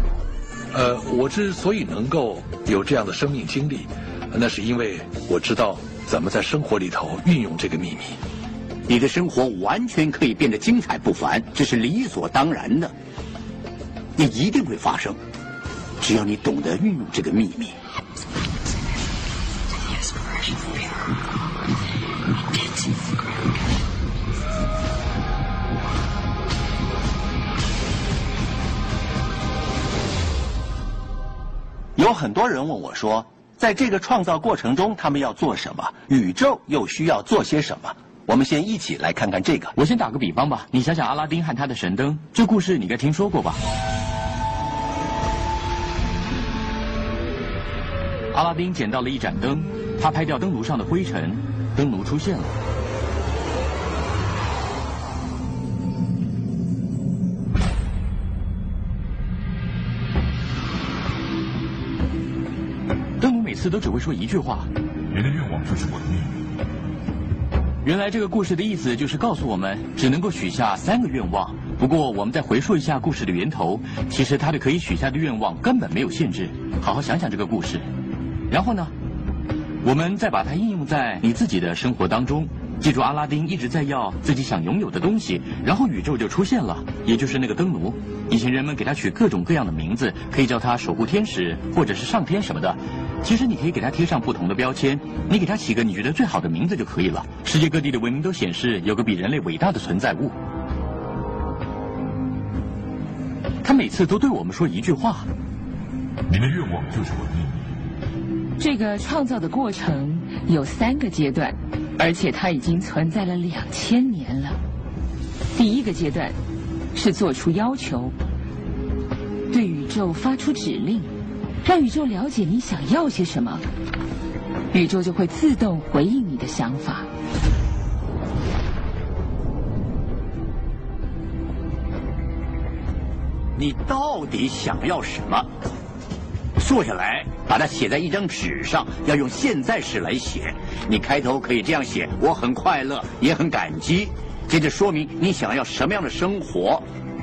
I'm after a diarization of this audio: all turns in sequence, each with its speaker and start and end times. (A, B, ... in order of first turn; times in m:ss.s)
0:00.7-0:08.2 A
0:08.9-0:12.9 B
0:14.2-0:15.2 B
0:16.0-0:17.8 B
0:32.0-0:39.7 C
0:39.8-0:43.6 D
0:48.3-0:52.5 D
1:03.2-1:04.7 D
1:05.1-1:06.4 E
1:07.8-1:17.9 D
1:18.5-1:18.9 D
1:19.8-1:40.4 D
1:43.6-1:45.3 D
1:46.3-1:47.7 E
1:48.6-1:54.6 F
1:55.6-1:56.4 F
1:56.9-1:58.1 F
1:59.5-2:01.1 F
2:01.6-2:03.6 F
2:04.7-2:07.1 F
2:13.6-2:15.5 B
2:16.6-2:26.8 B